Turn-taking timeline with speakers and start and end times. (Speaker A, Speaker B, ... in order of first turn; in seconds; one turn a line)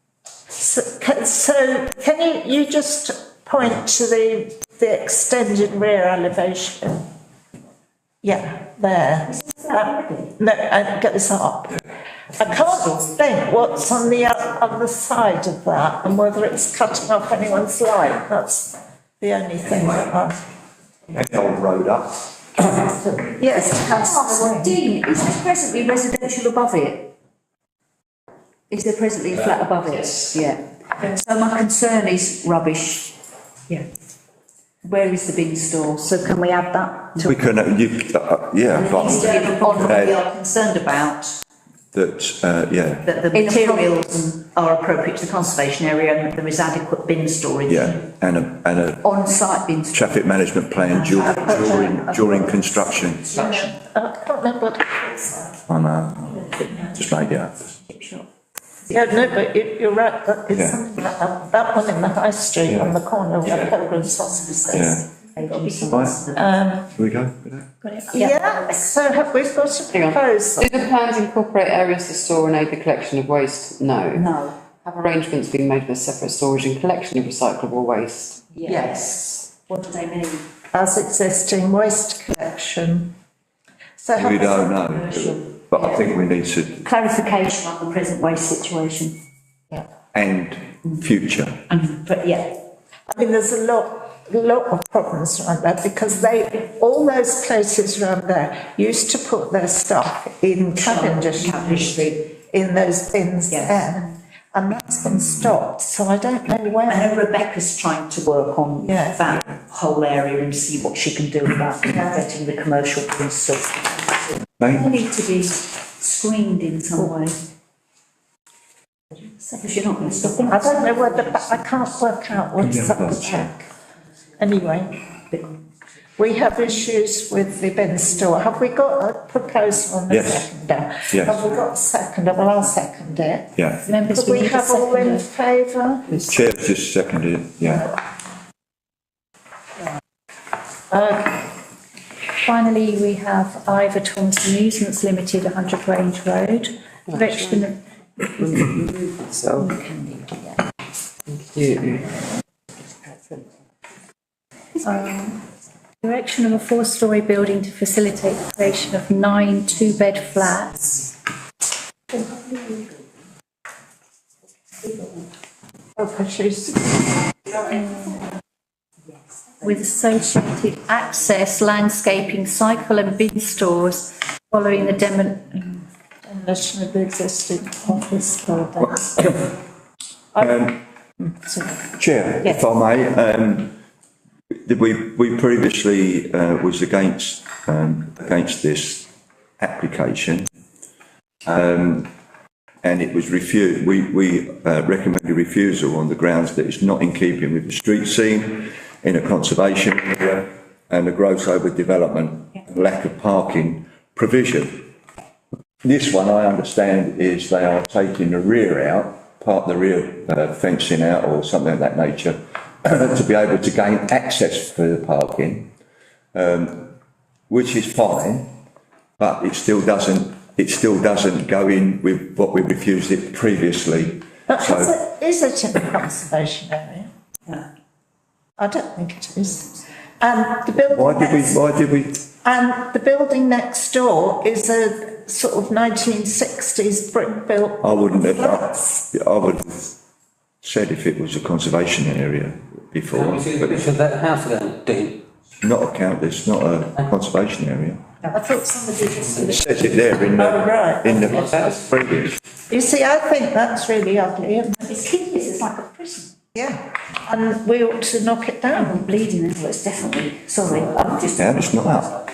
Speaker A: 0.6-7.1
Speaker A: 8.2-11.8
Speaker A: 12.4-20.4
Speaker B: 21.1-22.2
Speaker A: 23.2-24.8
Speaker C: 24.2-27.1
Speaker C: 28.7-30.6
Speaker C: 31.1-33.2
Speaker C: 34.8-37.3
Speaker B: 37.2-40.2
Speaker C: 38.9-41.4
Speaker D: 39.1-40.0
Speaker B: 41.9-43.1
Speaker C: 43.0-48.0
Speaker D: 43.4-43.8
Speaker B: 47.7-49.0
Speaker C: 49.0-50.0
Speaker B: 49.9-53.3
Speaker A: 51.2-52.0
Speaker D: 51.3-51.9
Speaker A: 53.3-55.6
Speaker B: 55.7-57.7
Speaker A: 58.9-65.0
Speaker B: 60.5-60.8
Speaker B: 62.7-63.8
Speaker B: 64.7-65.0
Speaker C: 65.3-66.4
Speaker B: 65.9-66.2
Speaker A: 66.3-66.9
Speaker B: 67.0-67.7
Speaker E: 67.8-68.1
Speaker A: 68.1-70.8
Speaker D: 69.9-79.3
Speaker C: 74.2-74.5
Speaker C: 78.6-79.1
Speaker C: 79.7-80.4
Speaker A: 80.7-83.2
Speaker A: 84.0-84.8
Speaker B: 84.2-86.8
Speaker C: 86.8-89.2
Speaker B: 90.1-91.6
Speaker C: 91.7-92.6
Speaker A: 93.1-107.1
Speaker C: 100.9-102.0
Speaker B: 105.1-105.5
Speaker C: 106.9-114.3
Speaker A: 108.8-109.2
Speaker B: 114.6-115.0
Speaker C: 114.8-117.4
Speaker C: 119.6-120.7
Speaker A: 120.4-123.7
Speaker B: 122.6-123.5
Speaker A: 124.4-125.0
Speaker A: 126.2-133.5
Speaker B: 130.1-130.5
Speaker B: 131.1-131.4
Speaker B: 133.6-133.9
Speaker E: 133.9-135.3
Speaker A: 134.1-136.3
Speaker B: 136.3-137.9
Speaker A: 140.9-141.4
Speaker E: 142.4-147.8
Speaker D: 147.1-147.7
Speaker D: 148.2-149.8
Speaker A: 149.8-150.3
Speaker D: 151.3-152.2
Speaker E: 154.8-155.4
Speaker E: 156.0-161.1
Speaker A: 162.3-162.8
Speaker A: 166.0-167.1
Speaker E: 167.7-168.2
Speaker E: 169.6-175.8
Speaker A: 176.3-179.3
Speaker B: 180.4-180.8
Speaker A: 181.2-181.8
Speaker B: 182.0-183.8
Speaker B: 184.7-189.1
Speaker B: 189.6-190.5
Speaker B: 191.4-192.1
Speaker B: 192.8-204.9
Speaker B: 205.8-215.7
Speaker B: 216.3-217.0
Speaker B: 217.5-218.5
Speaker B: 219.2-224.9
Speaker A: 224.5-227.6
Speaker A: 228.6-231.6
Speaker B: 230.9-232.2
Speaker A: 232.4-239.0
Speaker B: 237.8-239.9
Speaker B: 240.6-243.9
Speaker F: 243.1-245.2
Speaker B: 245.6-248.0
Speaker A: 248.3-249.7
Speaker B: 249.5-252.4
Speaker A: 250.3-251.5
Speaker F: 251.3-251.7
Speaker A: 252.7-254.8
Speaker C: 254.8-256.4
Speaker A: 256.5-259.0
Speaker C: 258.8-262.0
Speaker B: 261.3-262.1